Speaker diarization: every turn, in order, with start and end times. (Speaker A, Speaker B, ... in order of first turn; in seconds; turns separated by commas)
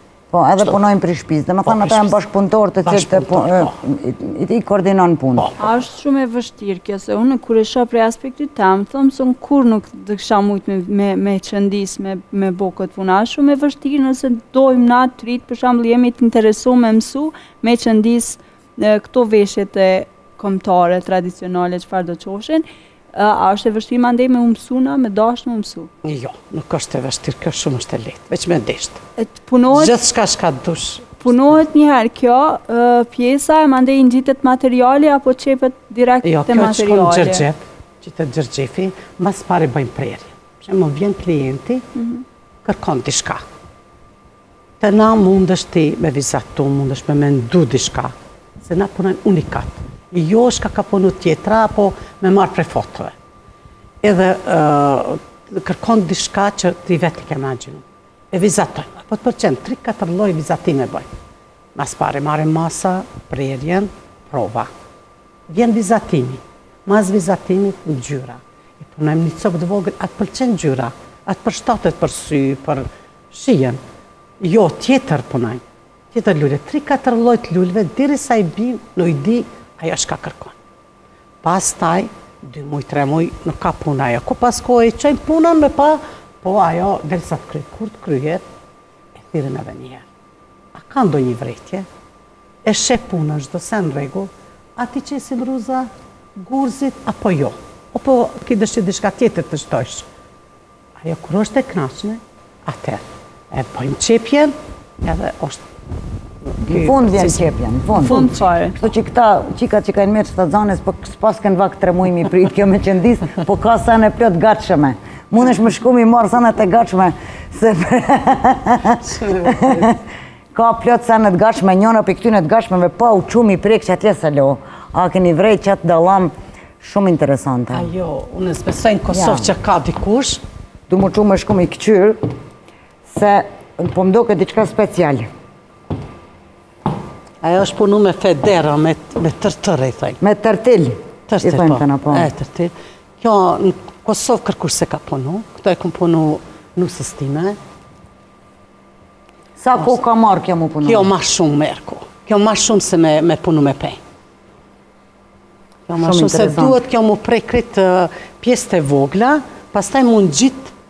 Speaker A: 0.3-5.5, Speaker B: 1.7-2.1, Speaker B: 2.9-3.7, Speaker C: 5.6-25.9, Speaker B: 26.0-29.0, Speaker C: 29.2-30.0, Speaker B: 29.7-31.5, Speaker C: 31.2-37.5, Speaker B: 36.2-41.8, Speaker B: 42.6-43.4, Speaker B: 44.8-53.1, Speaker B: 54.0-61.1, Speaker B: 61.8-64.7, Speaker B: 65.5-73.8, Speaker B: 74.4-80.5, Speaker B: 81.4-88.4, Speaker B: 89.2-90.1, Speaker B: 90.8-91.9, Speaker B: 92.6-100.1, Speaker B: 101.0-105.6, Speaker B: 106.5-107.4, Speaker A: 106.7-120.0, Speaker C: 108.0-108.8, Speaker B: 108.0-108.3, Speaker B: 119.0-119.9, Speaker A: 120.5-127.9, Speaker B: 127.7-130.4, Speaker A: 129.1-129.5, Speaker A: 130.9-132.3, Speaker A: 133.1-135.3, Speaker B: 137.4-140.2, Speaker A: 140.2-142.3, Speaker B: 141.3-147.6, Speaker A: 149.6-151.1, Speaker B: 150.8-154.0, Speaker B: 155.9-160.7, Speaker A: 156.0-156.8